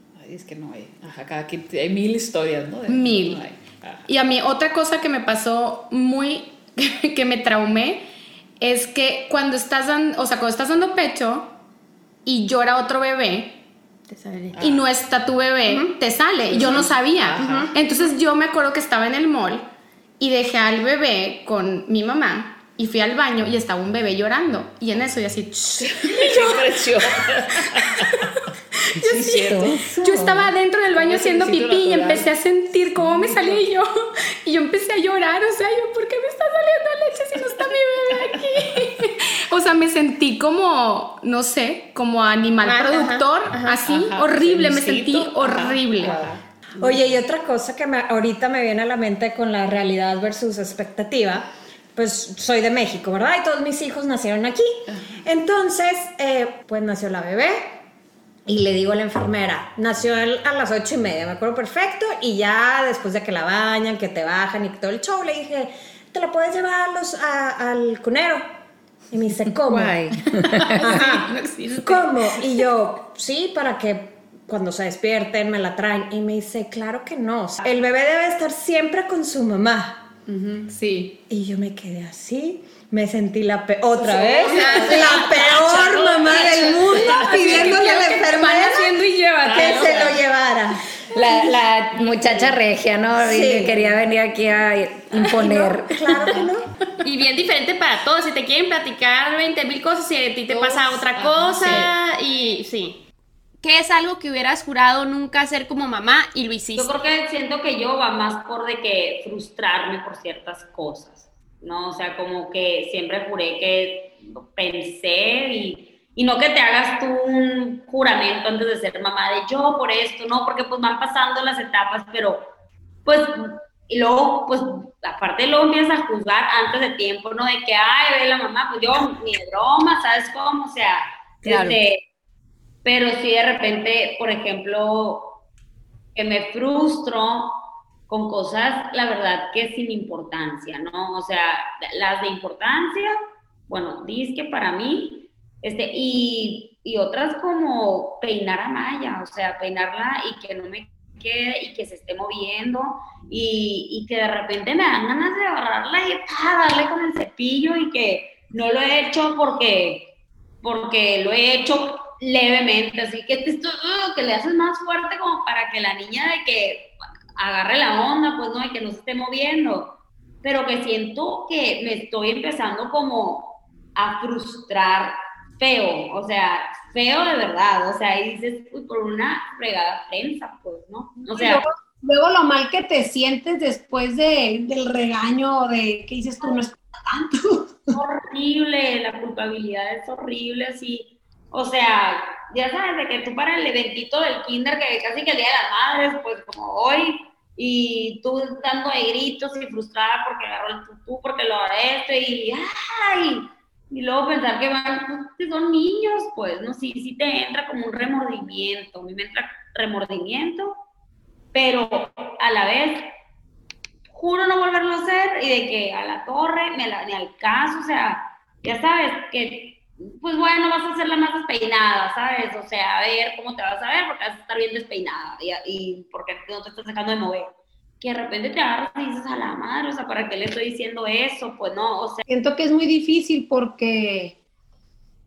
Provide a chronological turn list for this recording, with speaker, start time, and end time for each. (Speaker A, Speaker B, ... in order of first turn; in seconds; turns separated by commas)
Speaker A: 0.1-4.1, Speaker B: 2.9-3.5, Speaker B: 4.1-8.1, Speaker B: 8.6-11.5, Speaker B: 12.2-13.6, Speaker B: 14.2-19.6, Speaker A: 14.5-14.9, Speaker A: 16.5-17.7, Speaker B: 20.2-26.8, Speaker A: 25.8-28.1, Speaker B: 29.0-33.9, Speaker A: 29.0-29.9, Speaker A: 30.9-32.4, Speaker A: 32.9-33.7, Speaker B: 34.5-46.2, Speaker C: 42.7-43.2, Speaker A: 43.8-46.4, Speaker D: 46.8-57.7, Speaker A: 54.9-55.2, Speaker D: 58.5-68.5, Speaker D: 69.1-70.1, Speaker E: 69.7-70.2, Speaker D: 70.8-80.1, Speaker B: 70.9-72.0, Speaker B: 80.3-81.2, Speaker D: 81.3-90.8, Speaker B: 84.3-90.0, Speaker A: 87.2-87.8, Speaker A: 89.4-90.2, Speaker E: 91.2-96.3, Speaker D: 93.2-93.9, Speaker D: 95.1-96.7, Speaker C: 97.0-103.0, Speaker A: 100.5-101.9, Speaker C: 103.6-106.9, Speaker F: 106.8-122.5, Speaker F: 123.0-132.0, Speaker F: 132.8-135.4, Speaker F: 136.2-143.1, Speaker F: 143.7-181.6, Speaker G: 181.3-187.8, Speaker F: 187.9-210.8, Speaker F: 211.5-213.1, Speaker F: 214.1-232.2, Speaker G: 232.3-234.4